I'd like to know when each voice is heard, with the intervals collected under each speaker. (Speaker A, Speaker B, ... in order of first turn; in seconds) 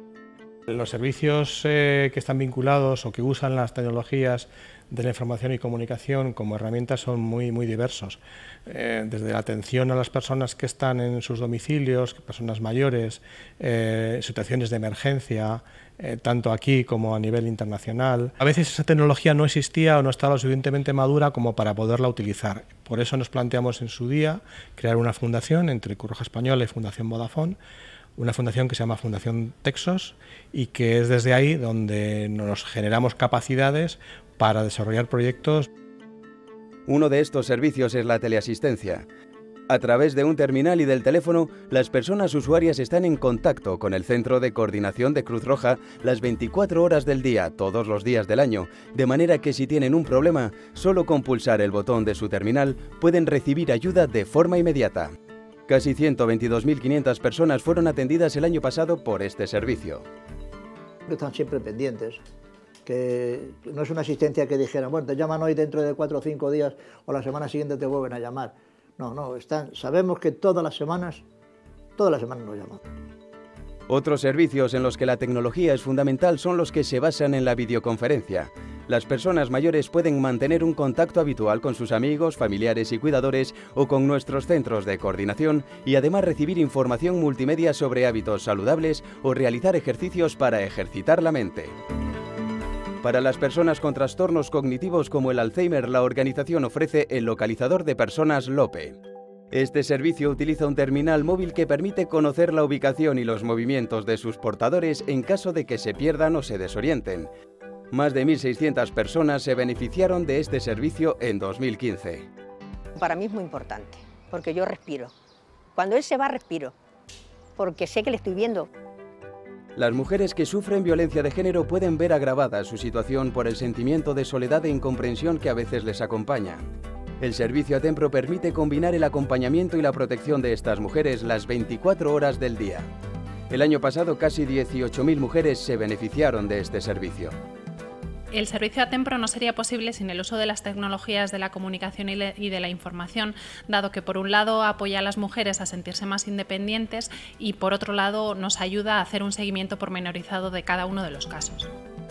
Speaker A: 0.7-27.6, 28.1-35.7
Speaker B: 36.9-39.0, 39.7-55.1, 55.7-60.0, 73.9-91.7, 93.0-99.0, 99.5-107.3, 107.9-112.3, 119.8-126.6, 127.2-132.9, 133.5-137.3
Speaker C: 61.1-62.2, 62.8-71.2, 72.0-72.8
Speaker D: 113.0-115.1, 115.7-116.7, 117.6-118.7
Speaker E: 138.3-151.7